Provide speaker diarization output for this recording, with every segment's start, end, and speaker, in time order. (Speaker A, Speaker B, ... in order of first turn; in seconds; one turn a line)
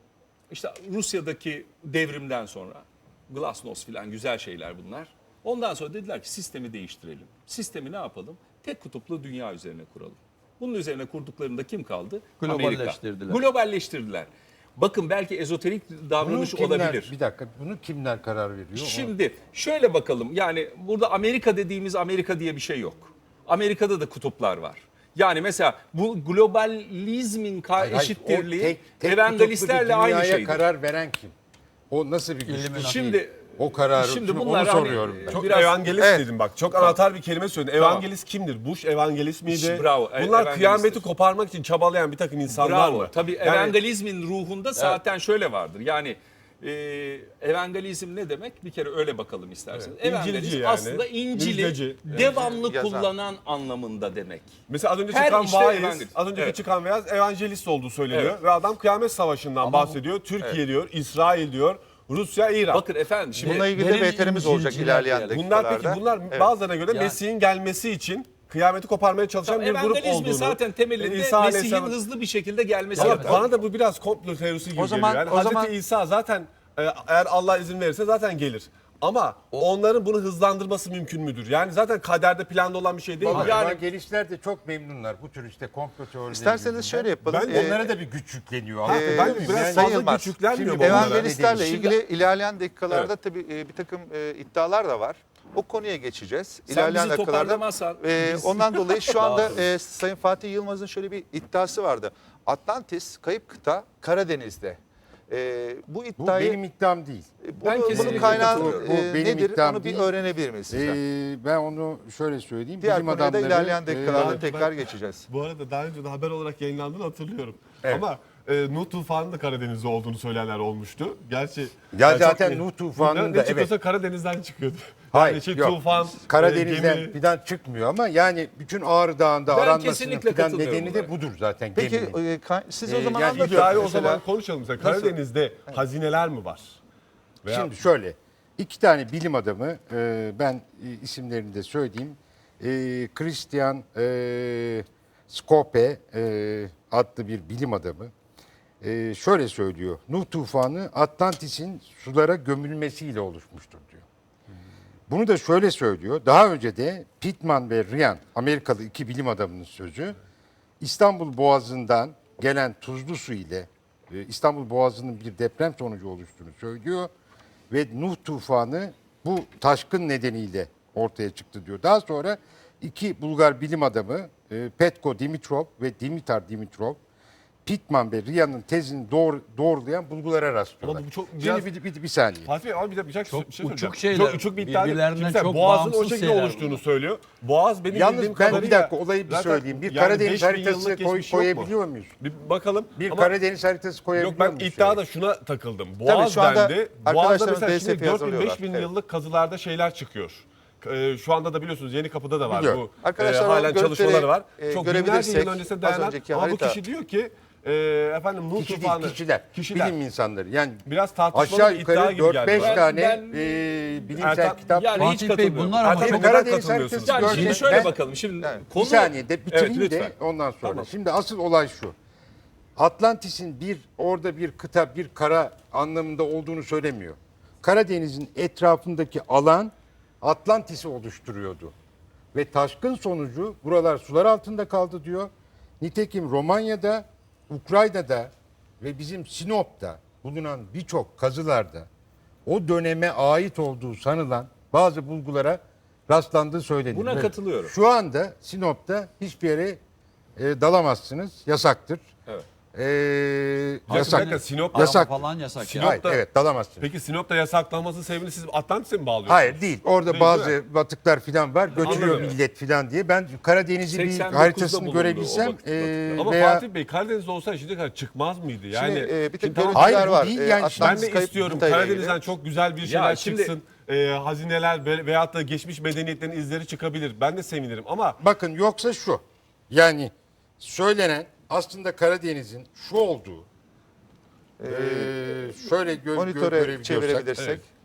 Speaker A: 0.5-17.1
Speaker B: 12.4-13.4
Speaker C: 16.2-19.1
Speaker A: 18.8-30.6
Speaker C: 27.8-31.3
Speaker C: 31.9-32.9
Speaker B: 32.4-33.2
Speaker A: 32.8-35.9
Speaker C: 33.6-35.4
Speaker D: 35.3-43.8
Speaker E: 36.0-36.2
Speaker A: 37.8-38.0
Speaker A: 39.5-41.0
Speaker A: 42.5-56.6
Speaker D: 49.7-52.4
Speaker E: 52.2-53.1
Speaker D: 54.7-62.8
Speaker A: 58.1-58.4
Speaker B: 59.6-59.9
Speaker A: 62.7-63.7
Speaker E: 63.4-66.5
Speaker B: 63.4-65.4
Speaker D: 65.3-72.0
Speaker B: 66.9-67.2
Speaker A: 69.4-73.5
Speaker D: 72.9-83.6
Speaker B: 73.0-73.5
Speaker E: 74.8-75.7
Speaker C: 83.2-91.9
Speaker A: 83.3-83.8
Speaker E: 86.3-87.9
Speaker D: 87.2-87.8
Speaker D: 88.8-91.3
Speaker E: 88.8-106.6
Speaker A: 96.7-99.2
Speaker B: 99.2-99.6
Speaker C: 106.2-107.3
Speaker E: 107.4-111.0
Speaker A: 107.6-108.8
Speaker D: 107.9-108.8
Speaker C: 107.9-110.1
Speaker C: 110.7-114.4
Speaker E: 112.8-115.3
Speaker D: 114.1-114.7
Speaker D: 115.3-127.2
Speaker C: 121.9-123.7
Speaker C: 125.1-132.2
Speaker A: 129.5-131.1
Speaker E: 131.7-134.2
Speaker C: 132.9-134.1
Speaker D: 133.3-136.8
Speaker E: 134.8-135.1
Speaker D: 137.4-137.7
Speaker C: 137.4-148.1
Speaker C: 148.8-154.0
Speaker C: 155.1-160.2
Speaker C: 160.8-167.1
Speaker C: 167.7-177.0
Speaker C: 177.6-182.5
Speaker D: 180.8-181.7
Speaker D: 182.4-193.3
Speaker B: 183.3-186.8
Speaker C: 187.9-192.1
Speaker C: 192.9-195.0
Speaker D: 194.1-209.9
Speaker E: 196.0-198.9
Speaker C: 202.4-202.8
Speaker E: 203.0-206.8
Speaker C: 208.6-214.9
Speaker D: 210.8-212.9
Speaker A: 212.5-213.6
Speaker D: 214.2-214.6
Speaker A: 214.6-216.3
Speaker B: 214.9-216.3
Speaker D: 215.8-217.8
Speaker C: 216.0-217.9
Speaker A: 217.0-220.1
Speaker E: 218.4-218.7
Speaker C: 218.7-221.9
Speaker C: 222.8-231.7
Speaker C: 232.3-241.9
Speaker C: 242.4-249.8
Speaker A: 246.9-247.7
Speaker C: 250.4-252.1
Speaker C: 252.7-255.2
Speaker D: 253.9-255.1
Speaker B: 253.9-256.0
Speaker D: 255.6-256.2
Speaker C: 255.8-256.9
Speaker D: 256.8-260.6
Speaker C: 259.2-266.6
Speaker D: 261.8-262.4
Speaker A: 261.8-262.4
Speaker A: 263.9-266.3
Speaker D: 266.1-270.2
Speaker E: 268.7-272.3
Speaker C: 269.7-271.2
Speaker D: 270.8-278.2
Speaker A: 272.8-273.5
Speaker C: 278.2-283.4
Speaker E: 284.6-287.6
Speaker C: 284.7-287.4